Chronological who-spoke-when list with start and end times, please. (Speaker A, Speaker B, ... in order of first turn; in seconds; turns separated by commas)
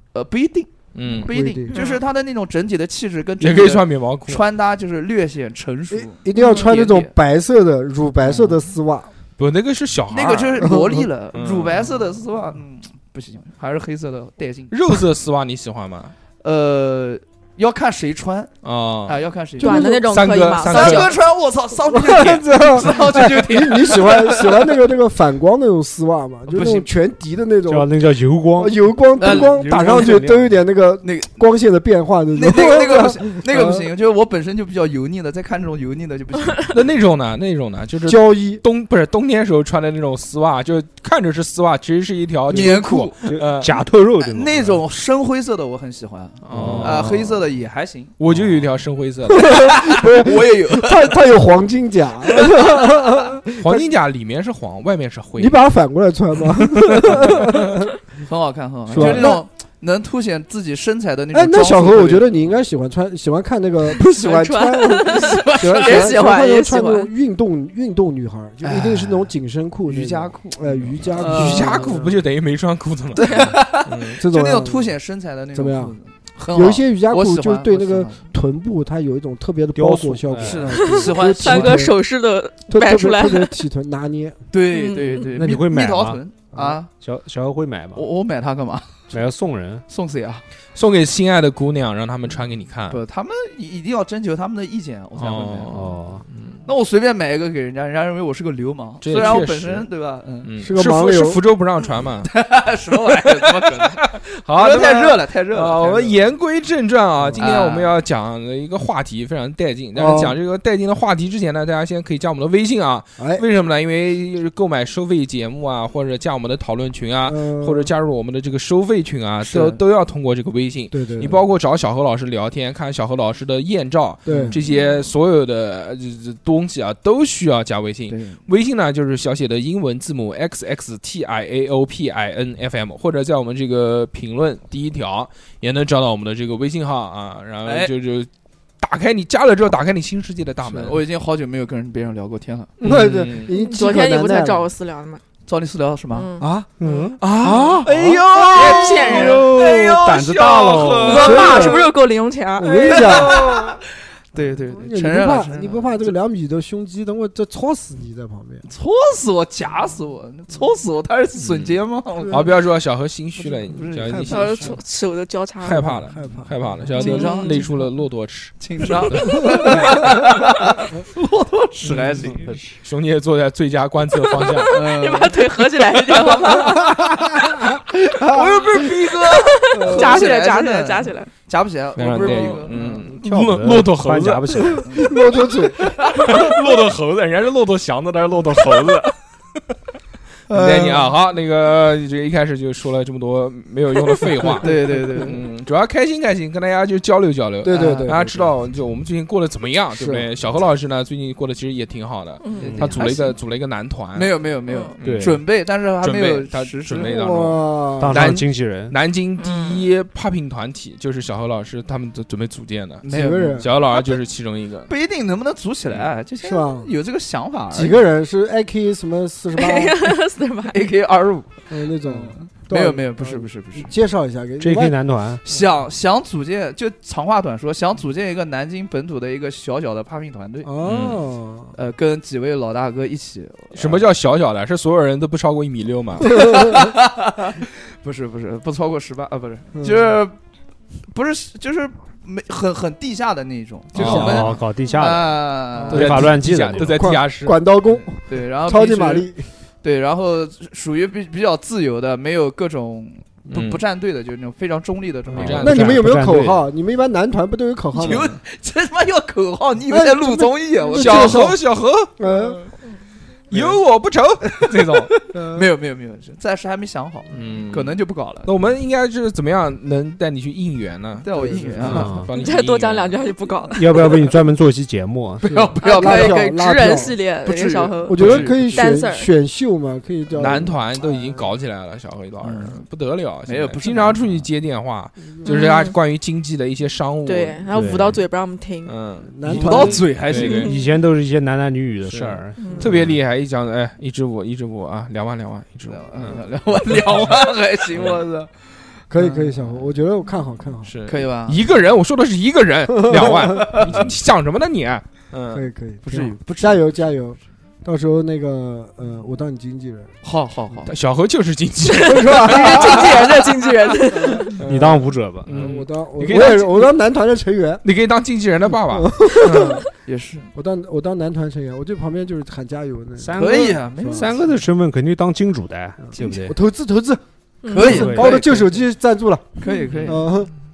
Speaker A: 0.1-7.1, Speaker B: 0.9-1.3, Speaker C: 1.3-1.8, Speaker D: 1.7-2.0, Speaker B: 3.4-4.4, Speaker C: 5.9-9.1, Speaker D: 6.3-6.7, Speaker A: 8.2-8.7, Speaker B: 9.4-11.8, Speaker A: 10.1-14.7, Speaker C: 10.6-11.1, Speaker B: 14.7-16.1, Speaker A: 16.4-18.5, Speaker B: 18.6-19.2, Speaker A: 19.1-19.9, Speaker C: 19.6-20.0, Speaker D: 19.6-21.1, Speaker B: 20.0-21.1, Speaker A: 20.6-24.7, Speaker C: 21.9-27.9, Speaker A: 26.5-26.9, Speaker E: 27.7-30.6, Speaker C: 28.6-33.9, Speaker A: 29.2-30.3, Speaker A: 31.0-31.4, Speaker A: 32.3-36.7, Speaker B: 36.7-43.7, Speaker C: 38.0-38.6, Speaker A: 42.5-43.2, Speaker E: 43.3-44.8, Speaker A: 44.2-48.1, Speaker B: 46.5-47.4, Speaker E: 46.5-47.1, Speaker B: 48.2-49.8, Speaker C: 49.3-53.9, Speaker A: 49.6-51.2, Speaker B: 53.6-55.6, Speaker C: 55.4-57.9, Speaker B: 56.5-57.9, Speaker A: 58.2-62.4, Speaker C: 58.9-59.4, Speaker B: 59.0-59.3, Speaker C: 61.3-72.2, Speaker D: 63.9-67.1, Speaker A: 65.0-66.2, Speaker A: 68.6-69.3, Speaker A: 69.9-71.8, Speaker B: 71.1-74.2, Speaker A: 73.2-78.2, Speaker D: 73.2-73.6, Speaker C: 74.2-75.0, Speaker C: 75.5-76.0, Speaker C: 76.5-82.0, Speaker E: 79.8-81.1, Speaker A: 80.4-81.9, Speaker D: 81.0-83.6, Speaker C: 82.7-84.4, Speaker A: 84.5-86.9, Speaker D: 84.7-85.2, Speaker E: 85.3-86.2, Speaker C: 86.5-86.8, Speaker E: 86.9-88.1, Speaker A: 87.9-89.2, Speaker E: 89.1-89.8, Speaker A: 89.9-90.4, Speaker B: 90.8-93.0, Speaker A: 92.9-95.8, Speaker B: 95.2-96.6, Speaker E: 95.7-96.2, Speaker A: 96.6-100.5, Speaker B: 99.0-99.9, Speaker B: 100.4-102.3, Speaker C: 100.6-101.4, Speaker A: 102.2-106.2, Speaker B: 103.1-141.0, Speaker A: 107.4-107.9, Speaker C: 109.9-110.3, Speaker C: 113.2-113.4, Speaker C: 117.2-117.9, Speaker A: 119.4-119.8, Speaker C: 120.9-121.4, Speaker C: 124.2-124.6, Speaker A: 124.3-124.5, Speaker D: 124.7-125.0, Speaker A: 128.1-128.4, Speaker A: 137.6-137.9, Speaker A: 140.8-142.7, Speaker C: 142.8-144.7, Speaker B: 142.8-143.5, Speaker D: 143.6-145.2, Speaker A: 145.4-146.3, Speaker D: 146.1-146.5, Speaker C: 146.4-150.0, Speaker E: 146.8-147.2, Speaker B: 147.2-149.3, Speaker A: 148.6-151.9, Speaker D: 148.6-149.5, Speaker E: 150.0-151.4, Speaker D: 151.1-153.4, Speaker C: 151.1-151.9, Speaker C: 152.6-153.8, Speaker A: 152.9-153.8, Speaker A: 154.3-156.1, Speaker C: 154.4-158.7, Speaker A: 158.6-162.4, Speaker B: 161.4-164.8, Speaker A: 163.5-164.8, Speaker D: 164.3-165.9, Speaker B: 165.6-168.6, Speaker C: 165.8-166.6, Speaker A: 166.9-167.6, Speaker D: 166.9-167.7, Speaker A: 168.6-172.7, Speaker B: 169.1-169.8, Speaker C: 169.4-169.9, Speaker B: 171.8-174.8, Speaker D: 174.5-177.0, Speaker A: 174.7-183.1, Speaker C: 176.6-177.1, Speaker C: 178.2-178.7, Speaker B: 178.3-179.2, Speaker D: 179.3-181.3, Speaker C: 179.7-180.2, Speaker B: 181.9-184.9, Speaker C: 182.1-182.7, Speaker E: 183.2-185.1, Speaker A: 184.8-185.1, Speaker C: 184.9-185.9, Speaker B: 185.8-189.1, Speaker A: 186.0-186.5, Speaker B: 190.5-204.3, Speaker A: 190.5-191.0, Speaker C: 194.5-195.3, Speaker A: 194.6-195.4, Speaker C: 197.6-198.4, Speaker A: 197.7-198.1, Speaker C: 200.0-200.2, Speaker D: 202.4-202.7, Speaker A: 202.6-203.4, Speaker A: 204.1-207.2, Speaker D: 204.7-204.9, Speaker B: 205.0-205.4, Speaker E: 205.0-205.4, Speaker B: 206.0-214.9, Speaker C: 207.0-208.4, Speaker E: 208.0-208.9, Speaker D: 209.4-209.8, Speaker A: 213.0-214.1, Speaker C: 213.1-213.7, Speaker A: 214.9-218.0, Speaker C: 216.4-216.9, Speaker C: 217.7-220.1, Speaker D: 219.6-220.8, Speaker A: 220.7-223.9, Speaker C: 221.7-225.0, Speaker E: 224.6-225.4, Speaker A: 225.4-230.7, Speaker C: 230.6-231.7, Speaker B: 230.8-231.2, Speaker A: 231.8-234.0, Speaker B: 233.7-236.6, Speaker A: 236.4-240.4, Speaker C: 239.8-240.2, Speaker A: 241.1-246.2, Speaker B: 243.9-244.6, Speaker E: 244.0-247.0, Speaker C: 245.8-249.4, Speaker B: 245.9-247.6, Speaker A: 247.9-249.3, Speaker A: 249.8-255.8, Speaker B: 253.5-253.8, Speaker C: 255.3-258.4, Speaker B: 255.3-256.1, Speaker E: 255.5-256.6, Speaker A: 257.9-261.4, Speaker C: 259.9-261.6, Speaker B: 260.9-262.1, Speaker C: 262.2-262.6, Speaker A: 262.3-262.7, Speaker B: 263.5-265.1, Speaker A: 264.6-268.5, Speaker C: 265.3-265.7, Speaker B: 267.3-273.2, Speaker A: 271.2-272.2, Speaker C: 271.3-272.0, Speaker E: 271.9-272.3, Speaker D: 272.4-274.0, Speaker E: 273.8-275.5, Speaker C: 275.4-277.2, Speaker A: 275.4-278.9, Speaker D: 275.8-279.3, Speaker C: 278.1-281.4, Speaker B: 278.2-278.5, Speaker B: 280.4-288.1, Speaker A: 282.4-282.8, Speaker A: 283.4-284.4, Speaker D: 285.4-285.9, Speaker D: 287.2-288.9, Speaker E: 287.7-288.2, Speaker B: 288.9-289.3, Speaker C: 289.2-290.1, Speaker A: 289.4-290.7, Speaker E: 289.6-293.2, Speaker B: 290.3-290.7, Speaker D: 290.5-290.8, Speaker B: 292.1-297.4, Speaker A: 295.9-298.5, Speaker C: 299.1-300.9, Speaker A: 299.1-299.9, Speaker B: 300.8-305.7, Speaker A: 301.1-301.6, Speaker C: 302.9-303.7, Speaker A: 303.6-304.0, Speaker C: 305.5-310.1, Speaker A: 306.0-306.9, Speaker A: 310.2-310.9, Speaker B: 310.9-313.0, Speaker D: 311.9-314.5, Speaker C: 312.0-313.2, Speaker C: 314.2-314.6, Speaker B: 314.6-316.9, Speaker E: 314.6-315.8, Speaker C: 315.5-317.8, Speaker B: 317.8-319.8, Speaker C: 318.9-319.9, Speaker A: 320.0-320.5, Speaker C: 320.5-324.4, Speaker E: 323.2-326.6, Speaker A: 323.3-324.5, Speaker C: 326.0-329.5, Speaker A: 327.7-328.8, Speaker E: 327.8-328.4, Speaker A: 329.6-330.3, Speaker D: 329.7-330.1, Speaker C: 330.0-330.5